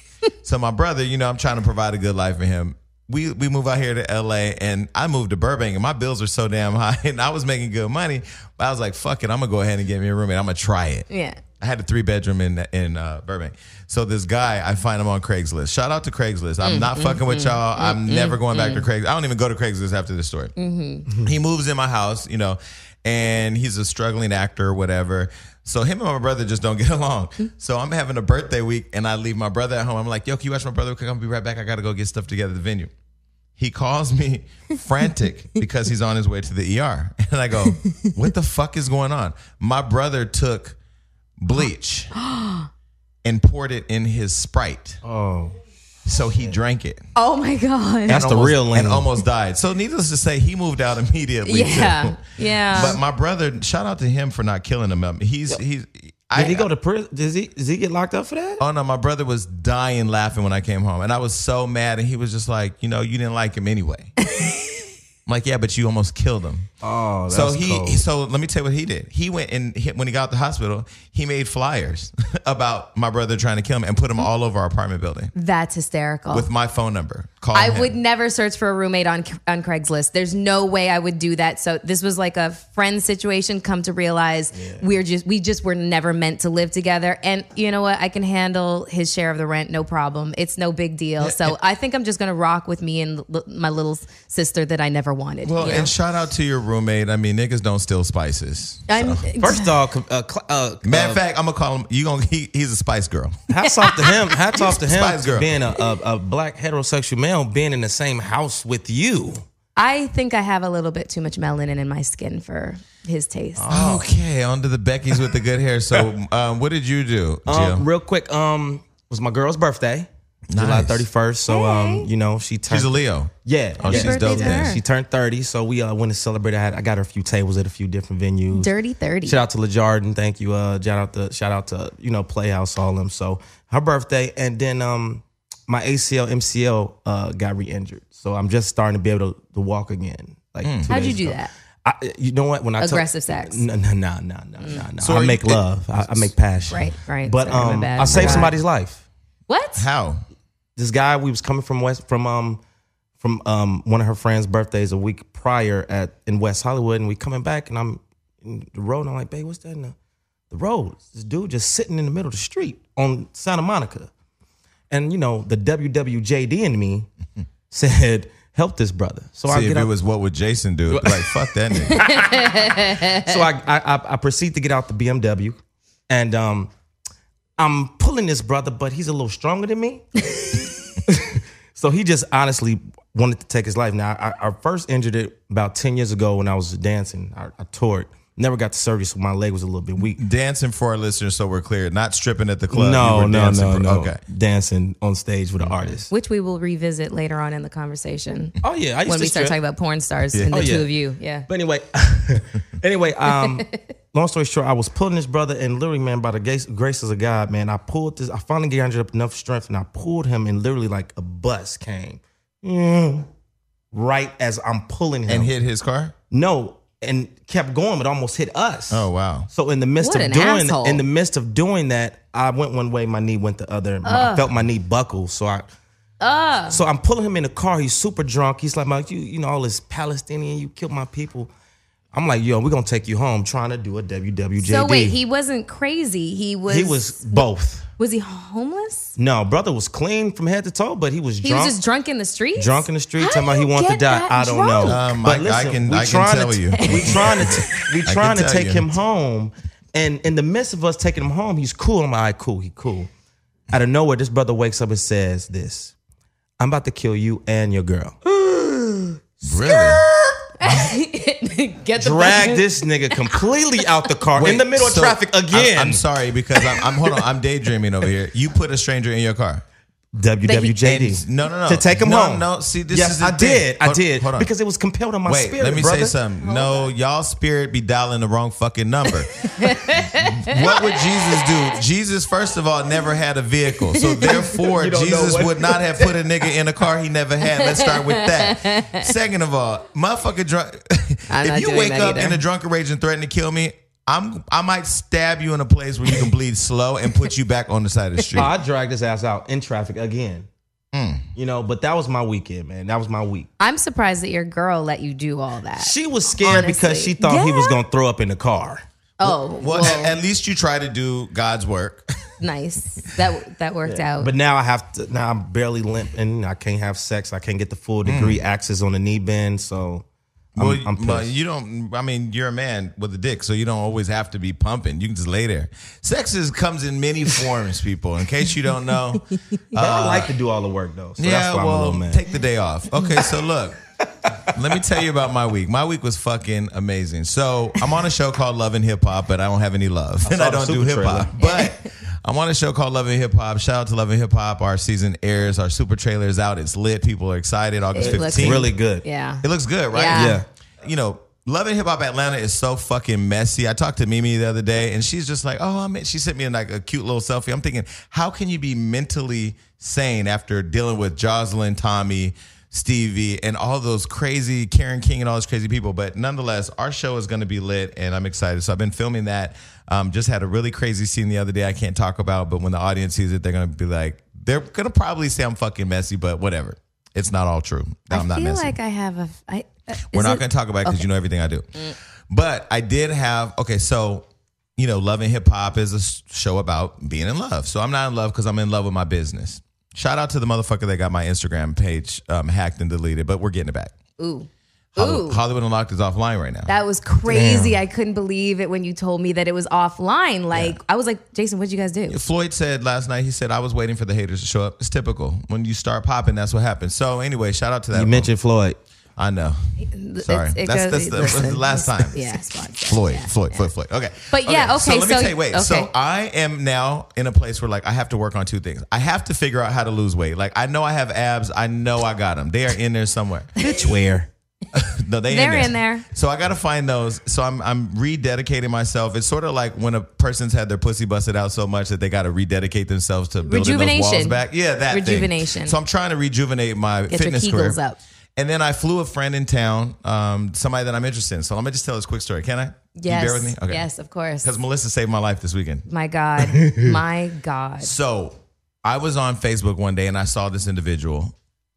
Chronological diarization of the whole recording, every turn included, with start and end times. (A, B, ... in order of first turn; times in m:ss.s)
0:00.4-0:11.1 A
0:11.1-0:11.4 B
0:11.6-0:20.5 A
0:16.6-0:18.8 B
0:20.6-0:21.1 B
0:21.1-0:32.9 A
0:33.6-0:40.8 A
0:41.4-0:42.1 A
0:42.1-0:42.7 B
0:43.2-0:45.0 A
0:45.0-0:45.6 C
0:46.0-0:47.0 A
0:47.2-0:48.3 B
0:48.1-0:49.1 C
0:48.1-0:56.7 A
0:51.4-0:53.0 B
0:56.4-0:58.6 C
0:58.6-1:04.1 A
1:05.3-1:06.7 A
1:06.8-1:08.0 C
1:07.3-1:15.3 A
1:15.3-1:16.5 B
1:16.3-1:18.0 A
1:17.5-1:35.9 B
1:24.5-1:24.8 C
1:31.2-1:31.6 A
1:35.4-1:39.3 A
1:38.9-1:39.7 B
1:39.4-1:41.2 C
1:40.8-1:43.4 A
1:43.5-1:49.4 C
1:43.6-1:44.2 B
1:44.6-1:45.6 A
1:49.8-1:53.6 B
1:53.6-1:54.0 C
1:53.7-1:57.8 A
1:57.5-2:02.9 C
2:00.5-2:01.1 A
2:01.5-2:02.1 B
2:02.7-2:04.8 A
2:03.4-2:08.7 C
2:03.8-2:04.8 B
2:08.5-2:09.4 B
2:09.3-2:29.0 C
2:20.6-2:20.9 A
2:20.9-2:21.5 B
2:22.8-2:23.6 B
2:25.0-2:26.3 A
2:26.7-2:28.6 B
2:28.1-2:28.4 A
2:29.5-2:29.9 B
2:29.8-2:30.2 A
2:30.8-2:32.6 C
2:33.2-2:40.0 C
2:40.5-2:44.1 C
2:44.9-2:47.1 C
2:47.7-2:49.9 C
2:49.5-2:52.1 A
2:50.9-2:56.7 C
2:51.9-2:53.3 B
2:57.6-3:00.3 C
3:01.1-3:10.2 C
3:10.2-3:14.2 A
3:12.7-3:16.1 C
3:15.6-3:16.0 A
3:16.1-3:21.5 B
3:18.6-3:19.6 C
3:20.3-3:20.6 A
3:20.5-3:20.9 C
3:21.5-3:33.3 C
3:23.3-3:23.8 B
3:33.9-3:35.5 C
3:35.3-3:36.1 A
3:36.3-3:45.7 C
3:38.9-3:39.5 A
3:40.0-3:41.0 B
3:44.0-3:44.5 B
3:46.2-3:46.8 B
3:46.7-3:51.5 C
3:52.1-3:55.2 C
3:54.6-3:57.5 B
3:56.7-3:57.9 C
3:58.0-3:59.2 B
3:59.2-4:01.8 C
4:01.4-4:05.0 B
4:02.6-4:13.1 C
4:04.8-4:07.5 A
4:06.8-4:07.9 B
4:08.1-4:08.9 A
4:13.7-4:15.9 C
4:16.6-4:18.2 C
4:18.3-4:22.6 B
4:19.4-4:20.0 A
4:22.0-4:26.0 C
4:24.4-4:29.6 A
4:26.8-4:27.2 C
4:30.1-4:36.2 C
4:30.4-4:30.8 B
4:30.8-4:34.5 A
4:35.3-4:58.5 A
4:36.4-4:36.9 B
4:39.4-4:41.3 B
4:43.9-4:44.5 B
4:44.6-4:46.4 C
4:47.5-4:49.1 B
4:51.3-4:52.4 B
4:58.4-5:00.5 C
5:00.9-5:01.3 A
5:01.4-5:03.5 C
5:03.6-5:07.8 B
5:05.8-5:09.3 C
5:09.2-5:10.1 B
5:09.6-5:12.1 A
5:12.4-5:14.3 B
5:13.9-5:21.3 C
5:18.1-5:18.4 A
5:20.6-5:30.3 A
5:29.8-5:32.2 C
5:31.2-5:33.8 A
5:34.5-5:48.7 A
5:40.2-5:41.4 C
5:41.4-5:41.9 B
5:48.0-5:50.4 B
5:48.0-5:49.0 C
5:49.4-6:18.7 A
5:50.1-5:50.4 C
6:18.1-6:21.1 B
6:20.1-6:33.9 A
6:34.2-6:35.4 B
6:35.0-6:36.7 A
6:36.7-6:42.2 B
6:37.3-6:37.8 C
6:42.1-6:48.3 A
6:47.9-6:48.8 C
6:49.2-6:49.6 A
6:49.8-6:53.7 B
6:50.2-7:03.6 A
6:54.3-6:55.9 B
7:03.6-7:04.3 C
7:04.7-7:17.8 A
7:05.3-7:06.0 B
7:13.5-7:14.4 B
7:14.9-7:15.8 B
7:17.1-7:18.0 B
7:18.4-7:23.9 A
7:23.0-7:24.5 B
7:24.4-7:25.9 A
7:25.9-7:27.9 B
7:27.8-7:31.4 A